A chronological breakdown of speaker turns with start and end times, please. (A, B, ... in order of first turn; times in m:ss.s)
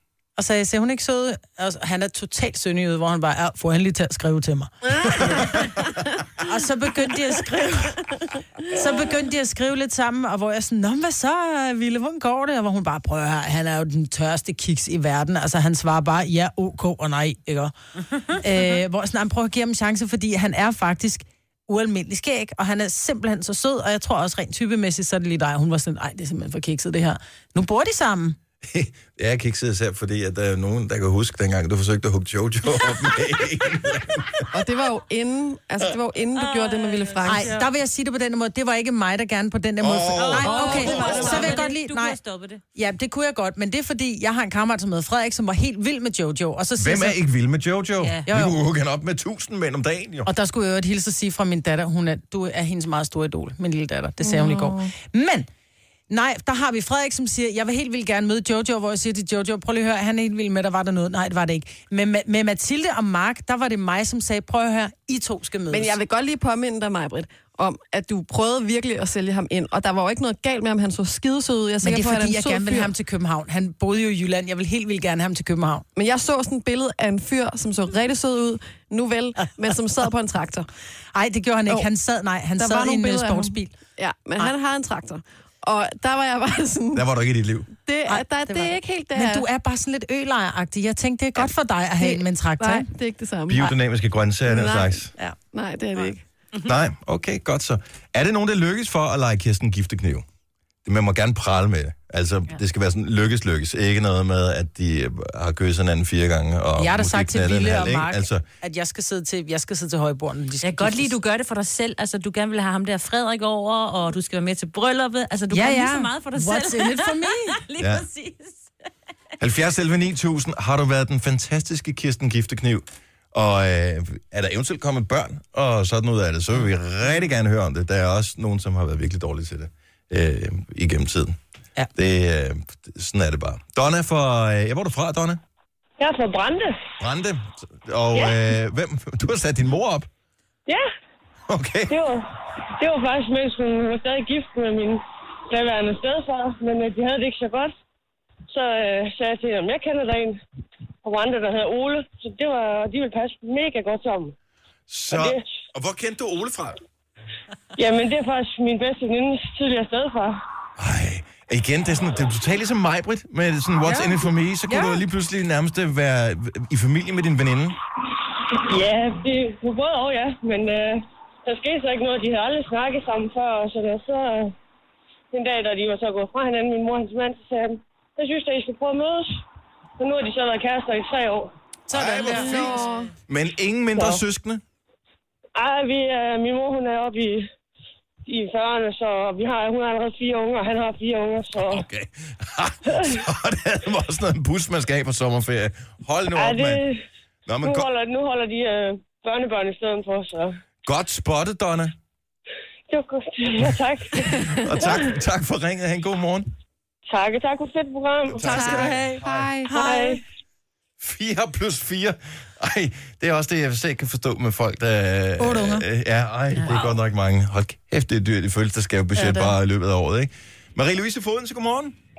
0:00.4-0:05.8 A
0:05.2-0:05.6 B
0:06.4-0:08.0 A
0:08.7-0:17.7 A
0:18.3-0:28.4 A
0:28.6-0:34.5 B
0:34.5-0:37.5 C
0:36.3-0:37.6 D
0:37.2-0:42.2 A
0:39.8-0:41.5 B
0:40.2-0:42.6 D
0:40.6-0:41.5 C
0:42.7-0:47.2 A
0:46.8-0:50.3 B
0:48.0-0:48.2 D
0:48.3-0:48.6 A
0:50.2-0:55.5 A
0:54.2-0:54.9 C
0:56.1-1:06.0 A
1:05.7-1:12.9 C
1:11.8-1:15.8 A
1:16.0-1:20.7 C
1:21.1-1:23.7 A
1:22.6-1:27.1 C
1:26.9-1:27.7 B
1:27.8-1:29.4 C
1:28.1-1:32.9 A
1:32.0-1:33.7 C
1:33.5-1:35.1 B
1:34.4-1:36.2 C
1:36.6-1:40.2 B
1:40.8-1:48.4 B
1:46.8-1:51.1 A
1:50.6-1:58.6 D
1:55.5-1:57.6 A
1:57.8-1:58.1 B
1:59.4-2:11.4 B
2:11.9-2:15.4 B
2:16.0-2:16.8 E
2:17.0-2:20.1 B
2:18.1-2:18.4 E
2:21.5-2:22.0 B
2:21.9-2:27.7 E
2:28.5-2:30.4 E
2:31.0-2:34.3 E
2:34.9-2:36.8 B
2:35.1-2:35.5 E
2:37.8-2:40.4 E
2:40.8-2:47.8 B
2:48.6-2:54.5 E
2:55.3-2:59.4 E
3:00.0-3:01.5 E
3:01.9-3:02.7 A
3:01.9-3:04.6 B
3:02.3-3:03.1 C
3:03.9-3:04.2 E
3:05.6-3:07.5 E
3:08.2-3:11.8 E
3:11.6-3:16.8 B
3:12.9-3:13.2 E
3:16.3-3:17.0 E
3:17.4-3:17.9 B
3:17.6-3:20.6 E
3:20.8-3:22.0 B
3:22.9-3:25.1 E
3:24.3-3:24.8 C
3:24.5-3:26.5 B
3:27.1-3:28.9 E
3:28.3-3:29.5 B
3:28.4-3:30.1 C
3:29.7-3:30.2 E
3:31.0-3:42.0 B
3:35.4-3:35.8 A
3:39.1-3:39.5 A